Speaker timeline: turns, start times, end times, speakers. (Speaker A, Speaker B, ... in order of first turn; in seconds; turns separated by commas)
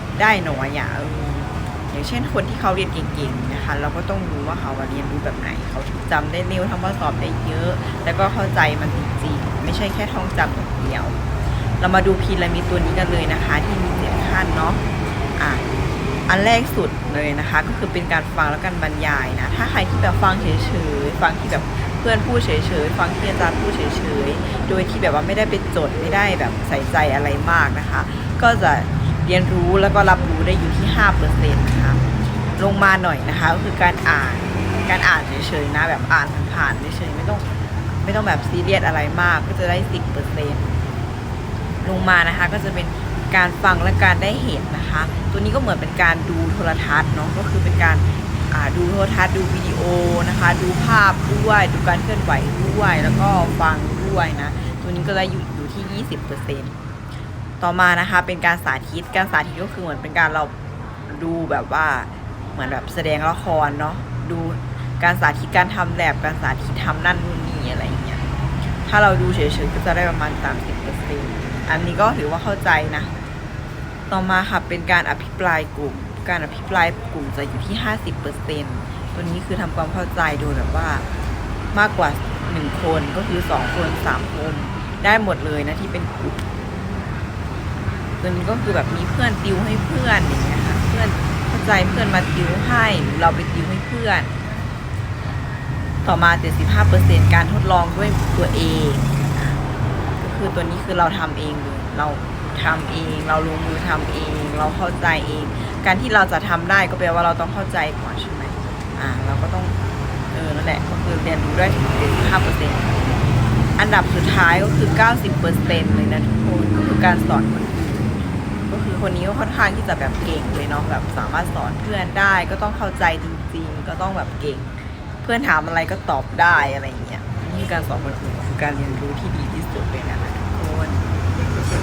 Speaker A: 0.2-11.2, Speaker A: 11.8-14.8, Speaker A: 15.4-15.6, Speaker A: 16.3-32.0, Speaker A: 32.6-37.5, Speaker A: 38.0-40.7, Speaker A: 41.8-56.7, Speaker A: 57.6-60.5, Speaker A: 61.1-68.2, Speaker A: 68.8-73.1, Speaker A: 74.1-81.0, Speaker A: 81.7-86.4, Speaker A: 88.2-94.3, Speaker A: 96.0-99.6, Speaker A: 100.2-109.7, Speaker A: 110.3-112.9, Speaker A: 113.8-118.2, Speaker A: 118.7-131.0